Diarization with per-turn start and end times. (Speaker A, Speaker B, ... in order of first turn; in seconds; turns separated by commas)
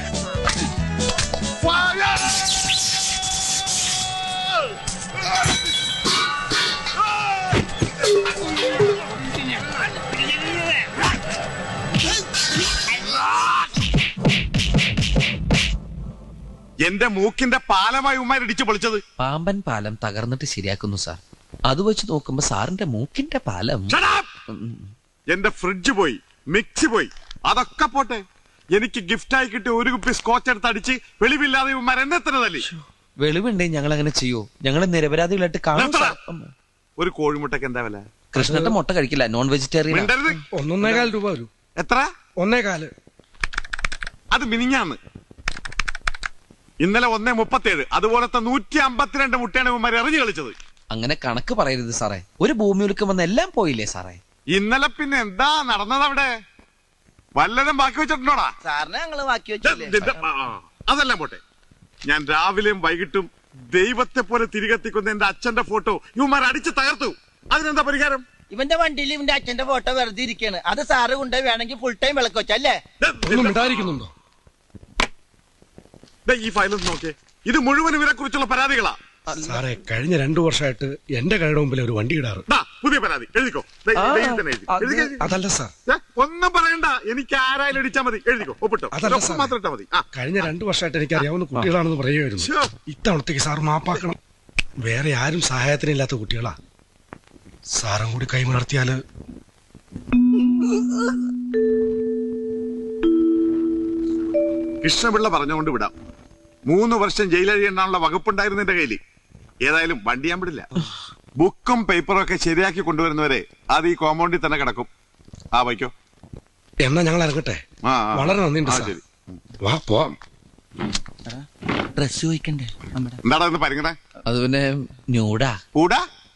Speaker A: 1.7-2.3, Speaker A: 16.9-19.0, Speaker B: 19.2-24.0, Speaker A: 23.9-24.3, Speaker B: 24.5-24.9, Speaker A: 25.3-28.2, Speaker A: 28.7-32.6, Speaker B: 33.2-36.5, Speaker A: 35.7-36.2, Speaker A: 37.0-38.0, Speaker B: 38.3-40.1, Speaker C: 38.4-38.8, Speaker A: 39.9-40.4, Speaker C: 40.5-41.5, Speaker A: 41.8-42.1, Speaker C: 42.4-42.9, Speaker A: 44.3-45.0, Speaker A: 46.8-50.5, Speaker B: 50.9-54.2, Speaker A: 54.5-56.3, Speaker A: 57.4-58.5, Speaker D: 58.6-60.0, Speaker A: 59.6-61.4, Speaker A: 62.1-68.2, Speaker D: 68.5-72.8, Speaker A: 73.0-73.9, Speaker C: 73.2-74.1, Speaker A: 76.2-79.0, Speaker B: 79.3-79.6, Speaker C: 79.4-82.5, Speaker A: 82.5-85.2, Speaker B: 84.0-85.1, Speaker C: 85.2-85.7, Speaker A: 85.9-90.0, Speaker C: 88.9-89.5, Speaker C: 90.1-94.2, Speaker A: 92.4-92.7, Speaker C: 94.8-96.5, Speaker C: 97.8-99.0, Speaker A: 104.8-105.9, Speaker A: 106.7-109.0, Speaker A: 109.7-110.7, Speaker A: 111.4-114.9, Speaker A: 115.5-115.9, Speaker C: 116.8-117.6, Speaker A: 117.8-119.4, Speaker C: 118.1-119.0, Speaker C: 119.6-120.2, Speaker D: 121.3-123.2, Speaker A: 123.2-124.0, Speaker B: 124.3-125.6, Speaker A: 125.7-126.0